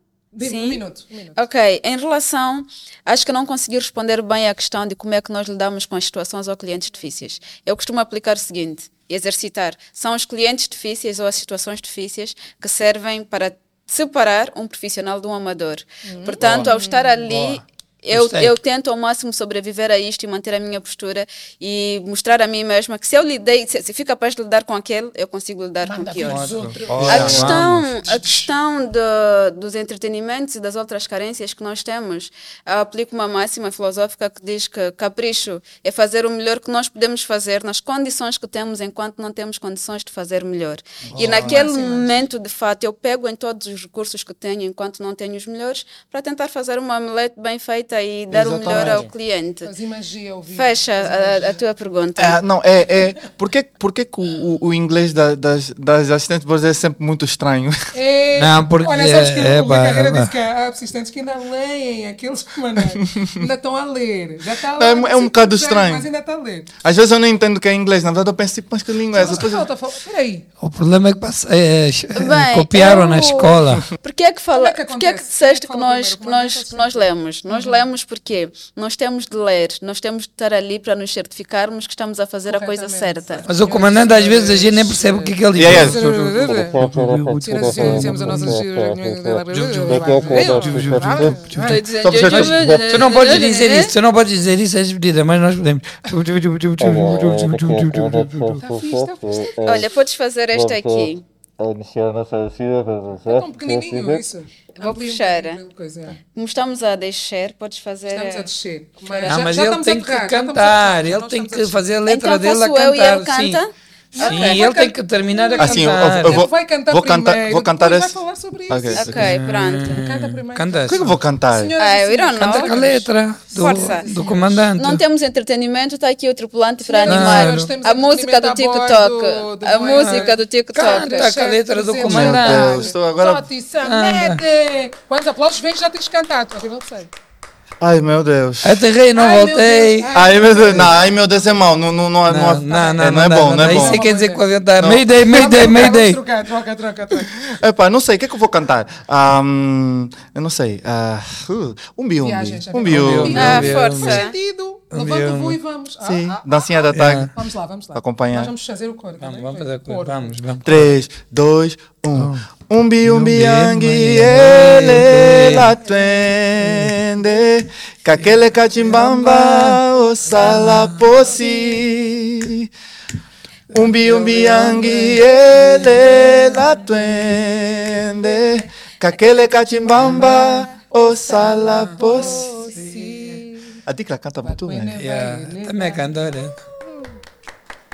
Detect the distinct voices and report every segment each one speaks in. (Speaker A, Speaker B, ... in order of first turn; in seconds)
Speaker A: 0.3-1.4, 16.0-17.2, 25.8-28.5, 41.2-42.2, 49.6-51.6, 57.9-66.7, 69.1-70.5, 74.5-77.8, 82.5-86.8, 87.4-91.8, 98.6-99.8, 103.2-106.2, 108.1-111.8, 114.1-114.8, 115.4-119.3, 119.8-124.7, 126.8-137.1, 139.2-141.5, 142.7-144.4, 145.2-147.4, 152.2-160.3, 175.6-176.8, 180.0-180.7, 181.2-183.8, 184.4-187.2
Speaker B: 0.4-0.8, 1.4-49.7, 50.5-52.4, 72.1-83.5, 91.6-93.9, 99.6-101.2, 104.8-105.6, 106.3-108.5, 109.0-109.4, 112.0-115.6, 118.9-120.0, 121.8-122.8, 123.5-124.0, 124.7-131.4, 153.3-154.3
Speaker C: 16.4-16.7, 17.3-18.6, 26.2-28.1, 41.1-41.6, 48.7-49.0, 58.3-60.3, 70.6-73.8, 83.5-88.6, 89.5-98.6, 109.2-113.6, 114.2-116.5, 119.1-121.2, 122.4-125.0, 127.1-127.7, 129.9-132.8, 133.8-134.4, 138.6-140.1, 142.2-146.2, 152.9-154.2, 154.9-155.6, 156.9-157.3, 159.2-160.9, 162.1-162.4, 163.0-165.7, 166.6-166.9, 168.8-171.1, 173.7-176.7, 179.9-180.6, 181.5-183.4, 185.0-186.7
Speaker D: 26.7-27.6, 48.3-49.1, 52.2-57.9, 63.1-63.5, 64.8-66.0, 66.8-69.7, 85.5-86.0, 92.0-92.7, 115.6-118.2, 118.7-119.4, 120.9-121.7, 132.0-133.5, 137.8-138.8, 140.1-144.0, 144.8-145.1, 147.4-153.7, 156.0-157.3, 157.9-158.5, 160.6-172.7, 173.7-182.6, 183.8-185.0
Speaker E: 86.3-91.4, 92.5-93.1, 96.8-100.0, 100.5-104.2